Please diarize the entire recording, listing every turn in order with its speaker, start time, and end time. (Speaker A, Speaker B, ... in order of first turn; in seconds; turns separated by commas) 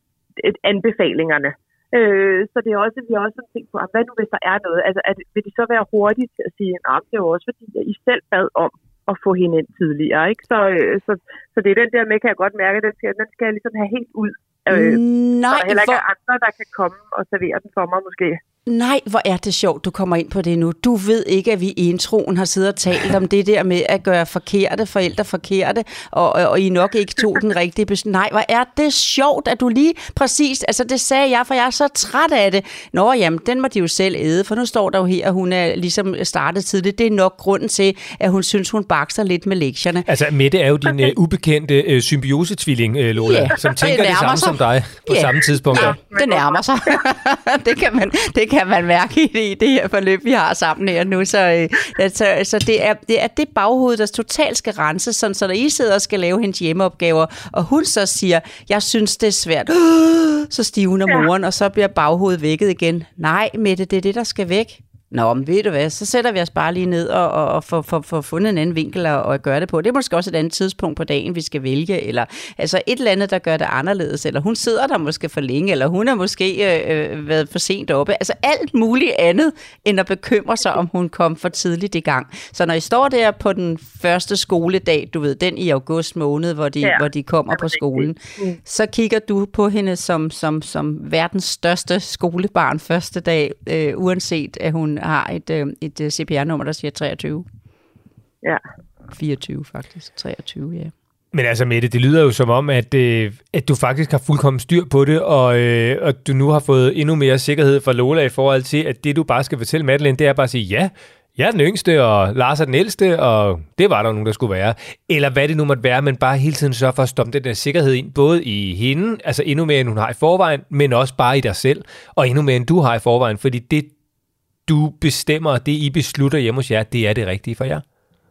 Speaker A: 0.4-15.0, Speaker B: 14.7-16.0, Speaker A: 15.5-18.4, Speaker B: 18.7-40.1, Speaker C: 40.1-46.0, Speaker B: 43.1-97.5, Speaker A: 45.7-47.0, Speaker A: 86.8-88.6, Speaker B: 99.1-100.9, Speaker C: 101.3-123.9, Speaker C: 124.7-127.8